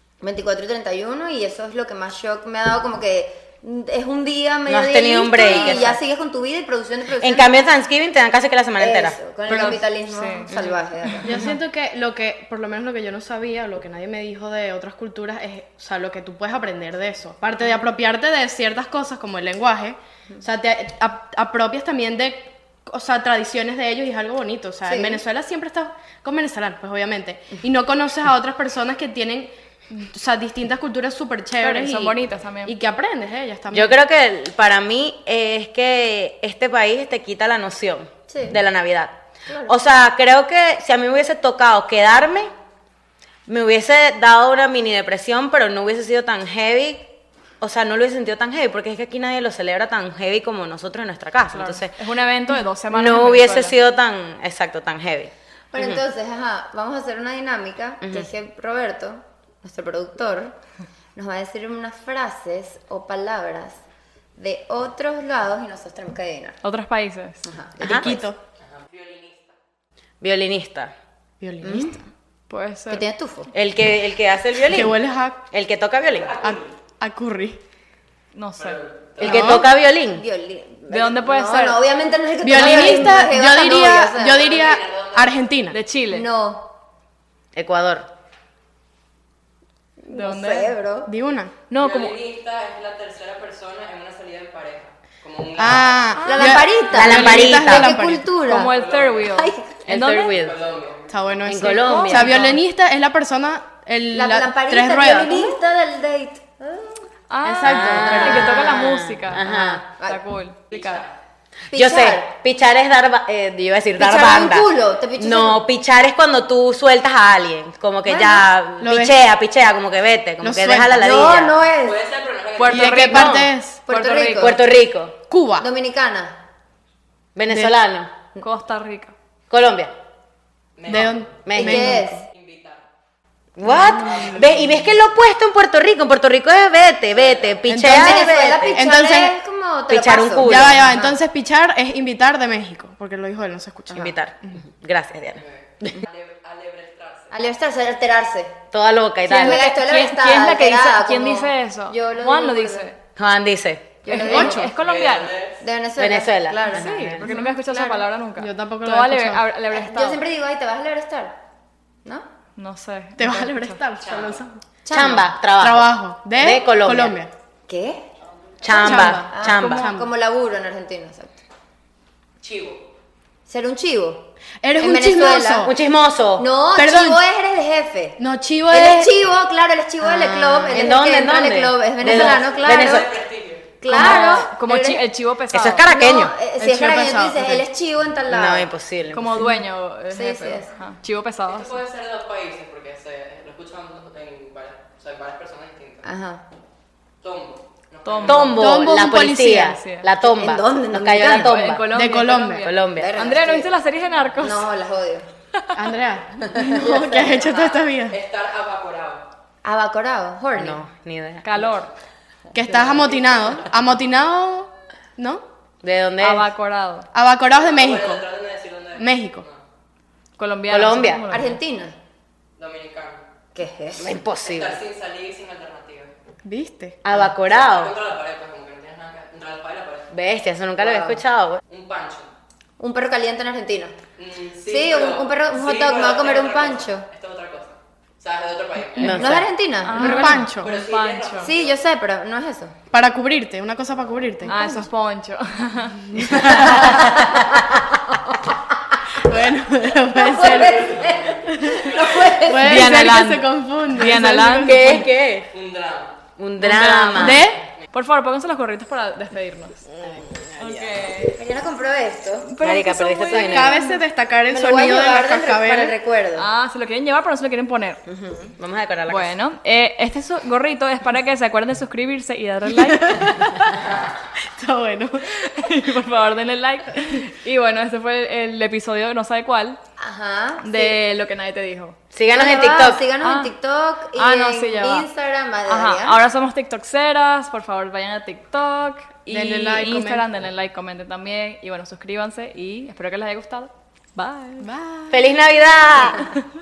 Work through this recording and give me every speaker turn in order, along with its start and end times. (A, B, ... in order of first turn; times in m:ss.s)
0:00.2-0:07.5 A
0:04.7-0:06.0 B
0:07.2-0:09.2 B
0:08.8-0:11.4 A
0:09.5-0:10.5 C
0:11.0-0:11.6 C
0:11.2-0:33.9 D
0:24.8-0:25.2 A
0:31.6-0:32.7 C
0:33.7-0:42.5 B
0:38.3-0:38.6 A
0:43.5-0:47.1 B
0:47.6-0:51.9 B
0:51.5-0:53.7 C
0:52.9-0:56.0 B
0:55.7-1:00.6 A
0:58.0-0:58.3 B
1:01.1-1:03.8 A
1:04.4-1:06.6 A
1:06.6-1:08.2 C
1:07.4-1:08.2 A
1:07.8-1:08.1 B
1:07.9-1:08.4 D
1:08.6-1:09.6 E
1:10.2-1:10.9 B
1:11.4-1:12.0 D
1:11.6-1:12.0 A
1:12.5-1:13.0 C
1:12.9-1:13.5 A
1:13.5-1:16.4 B
1:14.7-1:15.4 D
1:16.1-1:16.8 E
1:16.4-1:17.6 D
1:18.3-1:18.8 C
1:18.6-1:19.6 E
1:19.2-1:20.2 B
1:19.2-1:19.6 D
1:20.1-1:24.5 A
1:20.9-1:21.8 C
1:22.4-1:25.8 D
1:24.4-1:25.4 E
1:25.7-1:26.3 C
1:26.1-1:26.7 A
1:27.5-1:28.1 B
1:30.0-1:31.1 A
1:30.1-1:30.7 C
1:31.1-1:31.5 D
1:31.7-1:32.2 C
1:31.8-1:36.0 E
1:35.6-1:38.2 D
1:36.1-1:36.7 C
1:36.3-1:38.7 A
1:36.9-1:37.9 B
1:38.4-1:40.4 C
1:38.7-1:39.5 E
1:39.3-1:39.7 A
1:39.9-1:40.6 B
1:40.0-1:41.2 E
1:41.1-1:45.6 D
1:41.4-1:42.4 B
1:41.6-1:42.6 C
1:44.1-1:47.0 A
1:47.3-1:51.0 C
1:47.4-1:48.6 D
1:47.6-1:49.8 B
1:48.2-1:50.2 A
1:50.7-1:51.2 E
1:51.7-1:52.3 A
1:51.7-2:01.6 B
1:54.0-1:55.6 A
1:58.0-1:58.5 A
1:58.8-1:59.2 D
2:00.4-2:01.0 D
2:00.9-2:02.0 A
2:01.8-2:03.3 E
2:02.6-2:04.5 C
2:02.6-2:03.8 D
2:03.0-2:03.5 B
2:03.9-2:04.6 A
2:04.3-2:05.2 B
2:05.3-2:05.6 D
2:05.6-2:06.4 A
2:07.4-2:08.1 B
2:08.4-2:09.1 C
2:09.5-2:09.9 B
2:10.8-2:11.6 E
2:10.9-2:12.2 D
2:11.4-2:11.9 B
2:11.6-2:12.2 A
2:12.2-2:12.8 E
2:13.6-2:18.8 B
2:13.9-2:14.8 E
2:17.1-2:17.7 E
2:17.7-2:19.3 D
2:17.8-2:21.0 A
2:19.9-2:21.1 B
2:20.4-2:24.2 D
2:23.9-2:26.0 B
2:25.4-2:27.3 E
2:27.3-2:28.6 A
2:28.7-2:29.6 B
2:29.2-2:29.6 D
2:29.2-2:32.9 A
2:29.4-2:33.0 C
2:33.2-2:34.0 B
2:34.0-2:34.6 A
2:34.1-2:35.4 C
2:34.1-2:34.7 D
2:34.7-2:35.6 E
2:35.6-2:38.0 A
2:36.0-2:37.2 B
2:36.6-2:40.2 C
2:37.2-2:39.4 D
2:39.7-2:41.4 A
2:42.6-2:43.8 C
2:43.2-2:44.6 D
2:44.0-2:44.4 E
2:44.8-2:45.3 A
2:44.9-2:47.2 B
2:45.6-2:47.3 D
2:47.7-2:48.1 A
2:48.6-2:49.8 B
2:48.7-2:50.1 D
2:48.7-2:51.4 A
2:52.4-2:52.8 E
2:53.5-2:55.7 A
2:54.6-2:55.7 D
2:55.6-2:56.4 B
2:56.4-3:03.1 A
2:56.8-2:57.2 D
2:58.2-2:59.1 D
3:00.0-3:03.1 B
3:02.1-3:03.9 E
3:03.8-3:05.0 A
3:03.9-3:05.8 C
3:05.5-3:06.4 B
3:05.9-3:08.7 A
3:06.6-3:07.6 D
3:08.3-3:09.3 B
3:09.1-3:11.8 C
3:10.1-3:10.7 A
3:11.5-3:16.1 E
3:16.0-3:16.4 A
3:17.2-3:18.6 E
3:18.0-3:18.7 C
3:18.2-3:21.8 B
3:18.6-3:19.8 D
3:19.7-3:20.1 C
3:20.2-3:21.7 A
3:21.2-3:24.7 C
3:21.9-3:22.7 D
3:22.6-3:23.1 B
3:22.9-3:23.7 A
3:24.4-3:25.3 A
3:25.5-3:25.9 C
3:25.7-3:28.2 D
3:26.5-3:27.5 A
3:27.5-3:29.3 E
3:29.6-3:30.8 A
3:30.6-3:31.4 B
3:31.4-3:31.9 C
3:32.5-3:35.4 D
3:35.8-3:36.5 B
3:36.2-3:37.1 C
3:37.1-3:38.2 D
3:37.6-3:39.6 E
3:39.0-3:39.4 D
3:40.4-3:41.6 C
3:40.7-3:41.2 B
3:41.3-3:42.0 A
3:42.6-3:43.2 E
3:43.5-3:44.1 A
3:44.0-3:44.8 B
3:44.4-3:46.1 E
3:46.4-3:47.0 D
3:47.0-3:47.9 B
3:47.4-3:50.1 E
3:50.1-3:51.6 B
3:50.8-3:51.2 A
3:51.7-3:52.3 E
3:52.8-3:54.0 A
3:54.2-3:59.4 E
3:54.6-3:57.1 A
3:59.0-3:59.5 B
3:59.1-4:00.4 A
3:59.8-4:01.5 C
4:00.0-4:00.7 D
4:00.1-4:01.8 E
4:01.4-4:02.8 A
4:02.9-4:04.9 D
4:04.4-4:06.7 C
4:06.1-4:07.1 D
4:07.0-4:07.4 B
4:09.1-4:10.9 D
4:10.1-4:12.9 A
4:10.5-4:12.3 E
4:11.5-4:15.1 D
4:12.6-4:15.0 C
4:14.6-4:15.5 B
4:15.5-4:16.2 E
4:16.4-4:17.4 B
4:16.6-4:19.8 C
4:17.2-4:17.6 D
4:19.9-4:20.8 D
4:20.6-4:21.4 C
4:21.3-4:22.5 A
4:22.4-4:24.0 C
4:22.6-4:23.8 B
4:23.3-4:25.9 D
4:24.5-4:26.5 A
4:26.4-4:28.0 C
4:28.4-4:29.3 B
4:29.1-4:33.9 C
4:32.7-4:33.8 D
4:34.6-4:35.4 D
4:35.4-4:39.8 C
4:40.0-4:41.0 A
4:40.6-4:42.0 C
4:42.1-4:43.0 B
4:42.3-4:46.2 A
4:43.2-4:43.5 C
4:44.1-4:45.1 C
4:45.7-4:54.7 C
4:49.3-4:50.2 D
4:54.6-4:55.2 D
4:55.1-4:56.3 B